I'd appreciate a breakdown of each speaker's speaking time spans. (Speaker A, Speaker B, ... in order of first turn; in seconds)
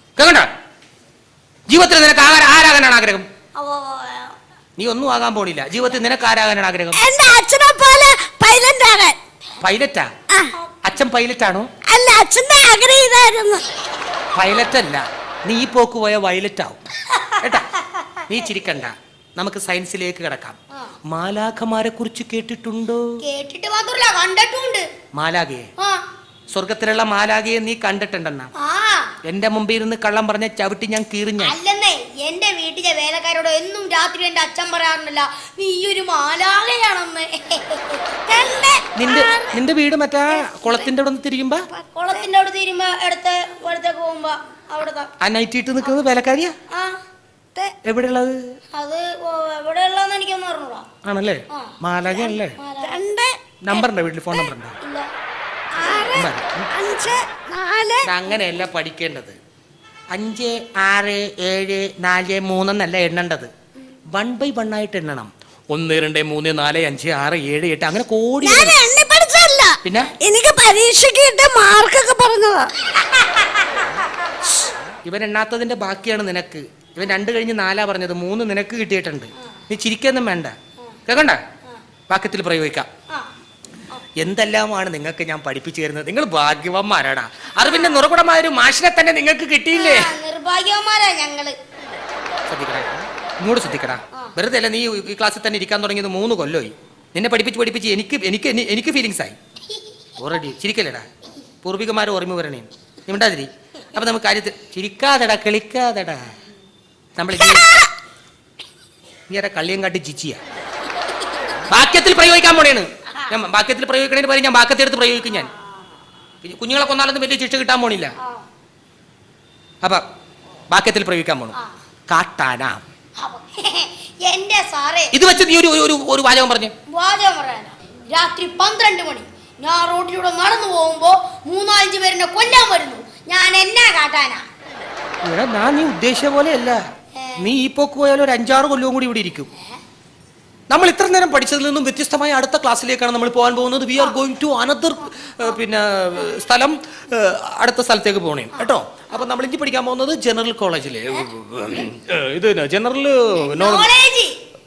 Speaker A: 0.2-0.5, 1.7-3.3, 4.8-7.0, 9.6-10.1, 10.8-11.7, 14.3-16.8, 17.4-17.7, 18.3-23.0, 25.1-25.7, 26.5-28.5, 29.2-31.6, 39.0-41.7, 45.2-46.5, 47.8-48.5, 51.0-52.6, 53.6-54.8, 56.1-56.7, 58.0-59.4, 60.1-63.5, 64.1-68.8, 69.8-70.1, 75.0-80.5, 81.1-81.4, 82.1-82.9, 84.2-90.1, 92.5-99.4, 100.2-101.1, 101.6-106.2, 107.2-107.8, 109.3-110.4, 111.7-115.5, 116.4-118.1, 120.7-121.5, 122.1-122.8, 125.1-126.7, 135.2-136.8, 137.4-139.5, 140.7-153.9
Speaker B: 3.6-4.3, 23.2-24.9, 28.6-29.1, 31.4-38.6, 41.8-45.1, 46.7-47.0, 48.7-50.9, 52.5-53.0, 54.8-55.1, 73.0-73.9, 87.6-88.1, 89.7-91.6, 115.4-115.7, 123.2-125.2, 126.9-134.4, 137.2-137.5, 145.3-145.6, 148.5-149.3, 153.4-154.4
Speaker C: 7.0-9.2, 11.9-13.7, 38.3-39.4, 52.8-53.8, 55.7-58.1, 68.4-72.7, 107.5-107.9